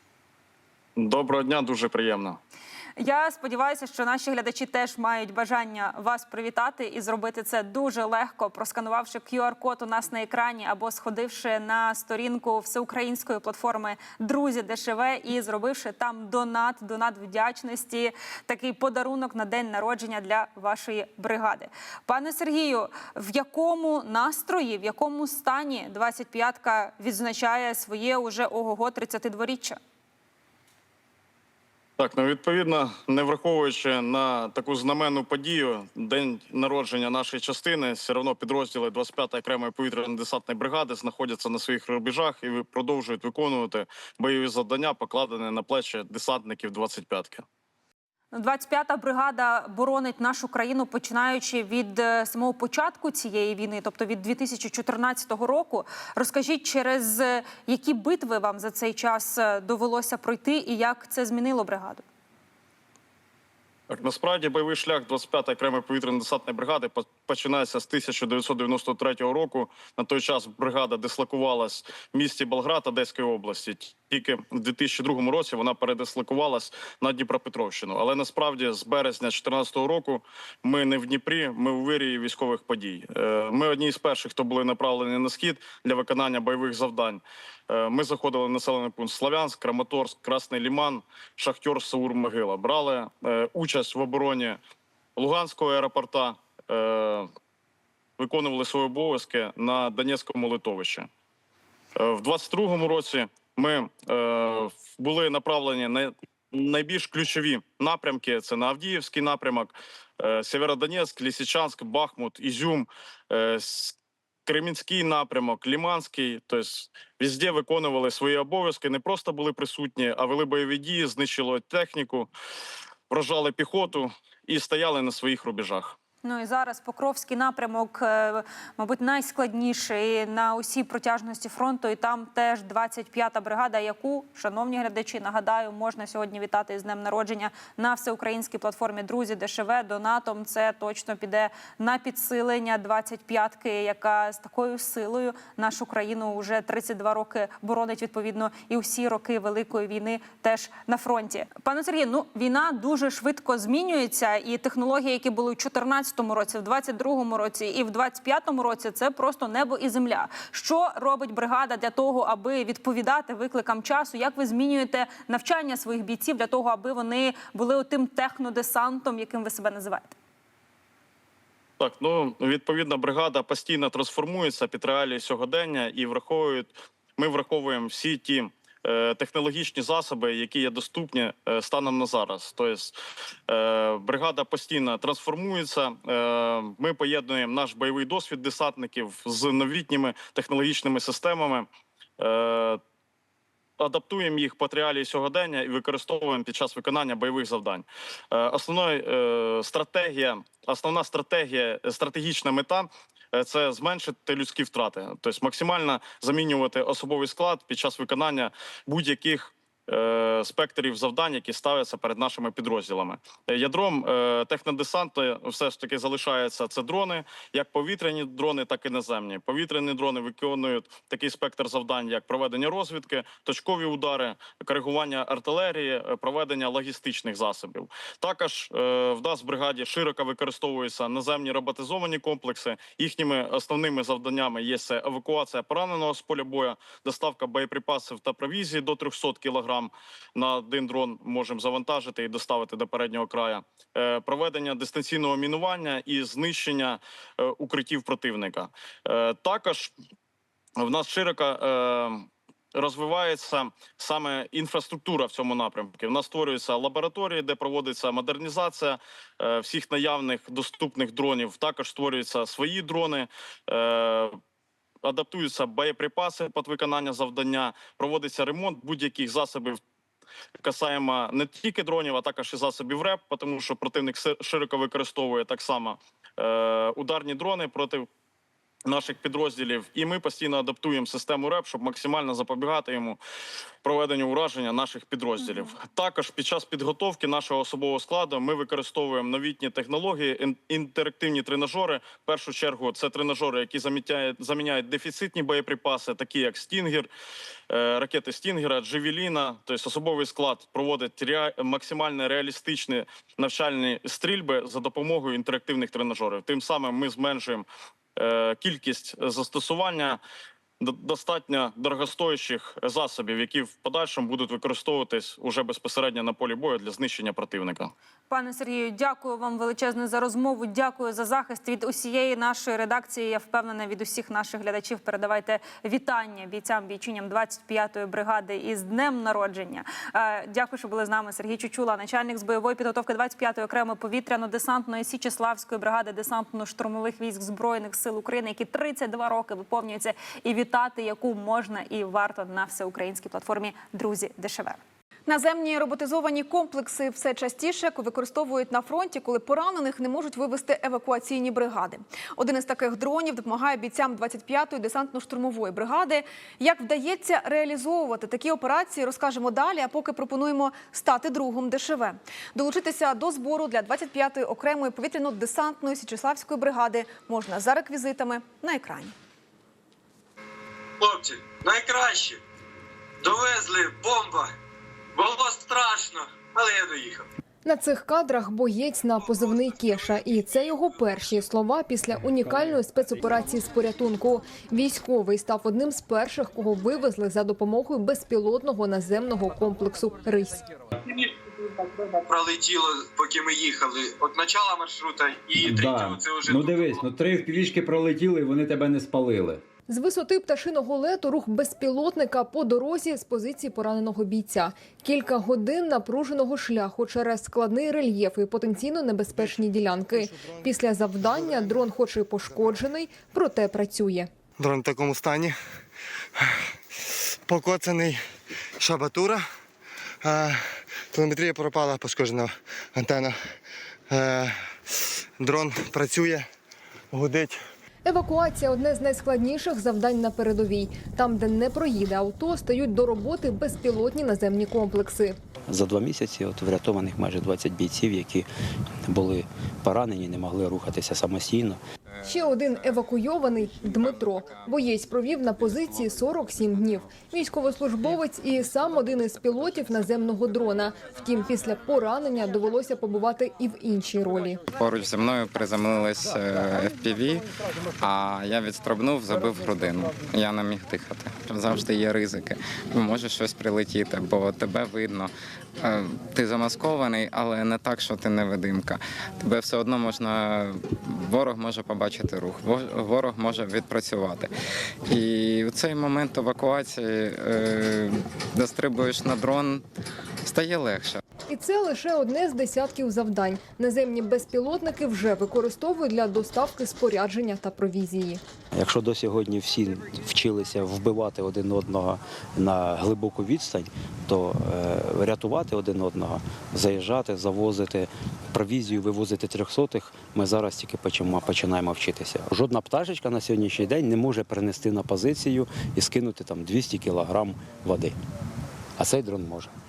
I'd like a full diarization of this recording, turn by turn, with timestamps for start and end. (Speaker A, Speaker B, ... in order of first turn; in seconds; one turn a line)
Speaker A: 1.0-2.4
Speaker B: 3.0-29.8
Speaker A: 32.0-47.4
Speaker B: 48.3-62.0
Speaker A: 63.9-94.6
Speaker A: 95.2-97.3
Speaker A: 98.2-101.1
Speaker A: 102.0-122.3
Speaker A: 123.1-126.0
Speaker B: 126.2-170.1
Speaker A: 171.8-182.9
Speaker A: 183.5-191.7
Speaker A: 192.2-192.8
Speaker A: 193.8-249.9
Speaker A: 250.8-264.4
Speaker A: 265.0-269.8
Speaker A: 270.6-278.1
Speaker A: 278.9-283.2
Speaker A: 283.8-297.1
Speaker A: 297.7-310.2
Speaker A: 310.8-317.9
Speaker B: 318.3-344.8
Speaker C: 345.3-369.1
Speaker D: 371.1-372.3
Speaker D: 373.3-373.6
Speaker D: 375.3-376.8
Speaker E: 377.6-390.6
Speaker D: 392.3-397.0
Speaker F: 395.6-399.6
Speaker E: 399.9-414.3
Speaker G: 411.4-411.8
Speaker G: 414.6-415.6
Speaker G: 416.4-416.7
Speaker G: 417.4-418.2
Speaker G: 418.8-419.4
Speaker G: 420.2-423.4
Speaker G: 424.1-426.5
Speaker G: 427.1-427.6
Speaker E: 428.0-435.3
Speaker H: 435.7-438.5
Speaker H: 439.1-441.8
Speaker E: 442.2-454.6
Speaker I: 454.7-457.5
Speaker I: 458.0-474.5
Speaker I: 475.1-479.8
Speaker I: 480.4-481.2
Speaker E: 481.5-488.4
Speaker H: 488.7-508.1
Speaker H: 509.0-509.7